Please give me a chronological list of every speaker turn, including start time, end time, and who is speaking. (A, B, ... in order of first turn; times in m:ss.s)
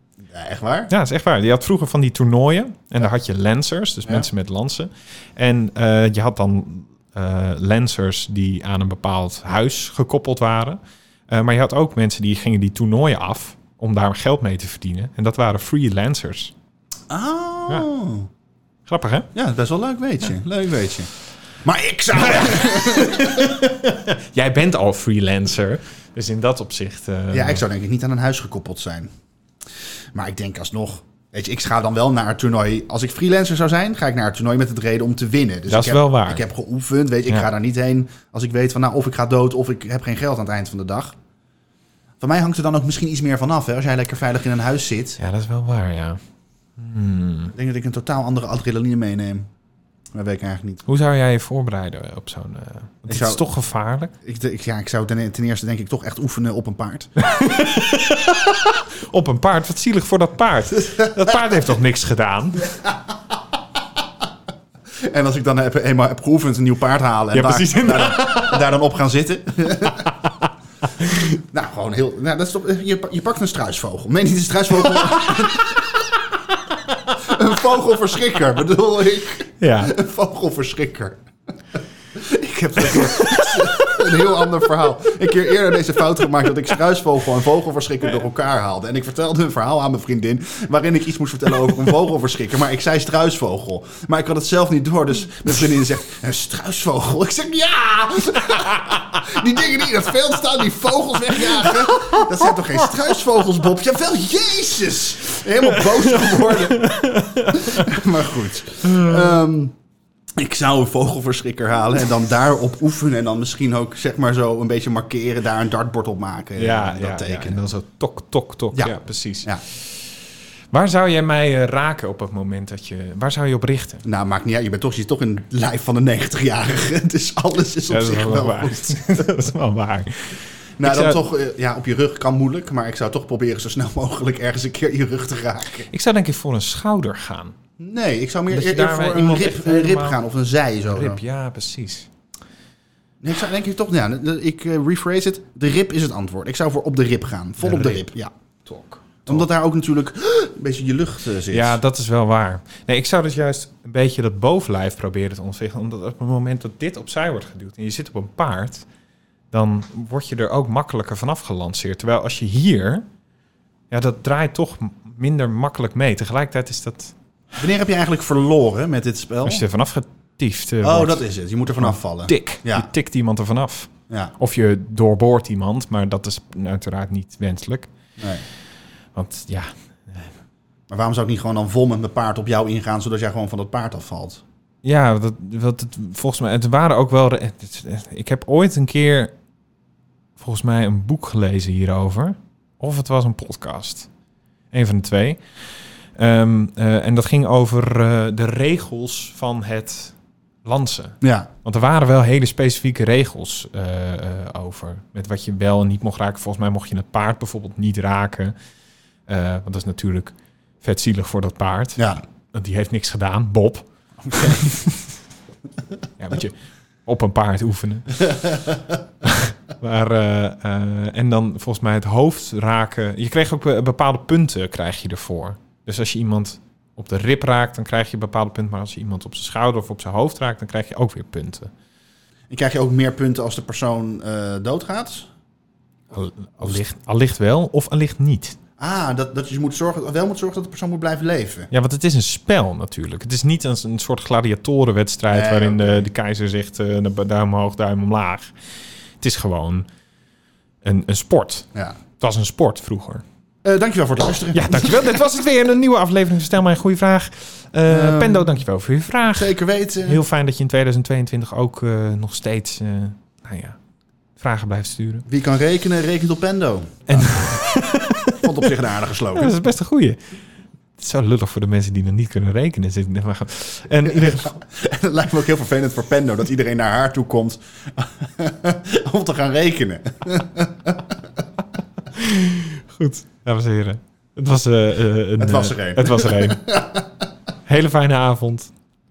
0:00.2-0:00.9 A
0:00.9-0:16.5 B
0:17.1-0:18.3 A
0:18.8-0:19.3 B
0:19.3-0:21.1 A
0:21.6-0:23.6 A
0:22.2-0:27.6 B
0:27.3-0:29.1 A
0:30.1-0:41.2 A
0:35.7-0:36.4 B
0:42.2-0:45.2 A
0:45.2-0:46.2 B
0:46.8-0:47.5 B
0:47.5-0:49.5 A
0:50.1-0:50.8 A
0:50.8-0:54.1 B
0:53.1-0:53.4 A
0:54.2-0:57.1 A
0:57.2-1:02.8 B
1:05.0-1:10.1 A
1:07.3-1:08.6 B
1:10.2-1:11.4 B
1:11.3-1:16.2 A
1:17.1-1:21.2 A
1:19.6-1:19.9 B
1:22.1-1:49.7 A
1:22.8-1:24.0 B
1:41.5-1:42.8 B
1:45.7-1:47.9 B
1:48.8-1:49.3 B
1:50.4-1:57.6 A
1:56.6-2:00.0 B
1:58.7-1:59.6 A
2:00.7-2:04.0 B
2:04.0-2:09.2 A
2:07.9-2:11.2 B
2:10.8-2:15.9 A
2:15.9-2:17.6 B
2:17.8-2:21.2 A
2:18.5-2:20.2 B
2:20.8-2:22.1 B
2:23.2-2:28.3 A
2:27.6-2:28.1 B
2:28.6-2:29.4 B
2:29.2-2:31.8 A
2:31.5-2:38.8 B
2:39.5-2:43.0 B
2:43.9-2:47.1 B
2:47.6-2:49.6 A
2:49.4-2:51.2 B
2:50.8-2:52.9 A
2:51.8-2:57.9 B
2:54.1-2:54.3 A
2:58.2-2:58.4 A
2:59.1-3:00.3 B
3:00.9-3:04.4 A
3:04.8-3:09.3 B
3:10.4-3:14.1 B
3:14.7-3:15.4 B
3:16.2-3:28.5 B
3:21.2-3:21.5 A
3:29.3-3:35.0 B
3:34.2-3:34.8 A
3:36.2-3:38.5 B
3:39.2-3:51.7 B
3:52.5-3:55.3 A
3:56.1-3:58.6 B
3:58.8-4:01.7 A
4:01.7-4:08.5 B
4:05.3-4:06.1 A
4:09.2-4:09.9 B
4:10.8-4:13.2 B
4:13.6-4:15.2 A
4:14.5-4:23.8 B
4:17.9-4:18.6 A
4:19.3-4:20.2 A
4:24.4-4:25.2 B
4:25.3-4:27.8 A
4:27.1-4:28.7 B
4:28.3-4:29.6 A
4:29.3-4:30.4 B
4:31.0-4:34.6 B
4:34.1-4:41.2 A
4:42.1-4:46.6 B
4:45.4-4:47.1 A
4:47.6-4:48.7 B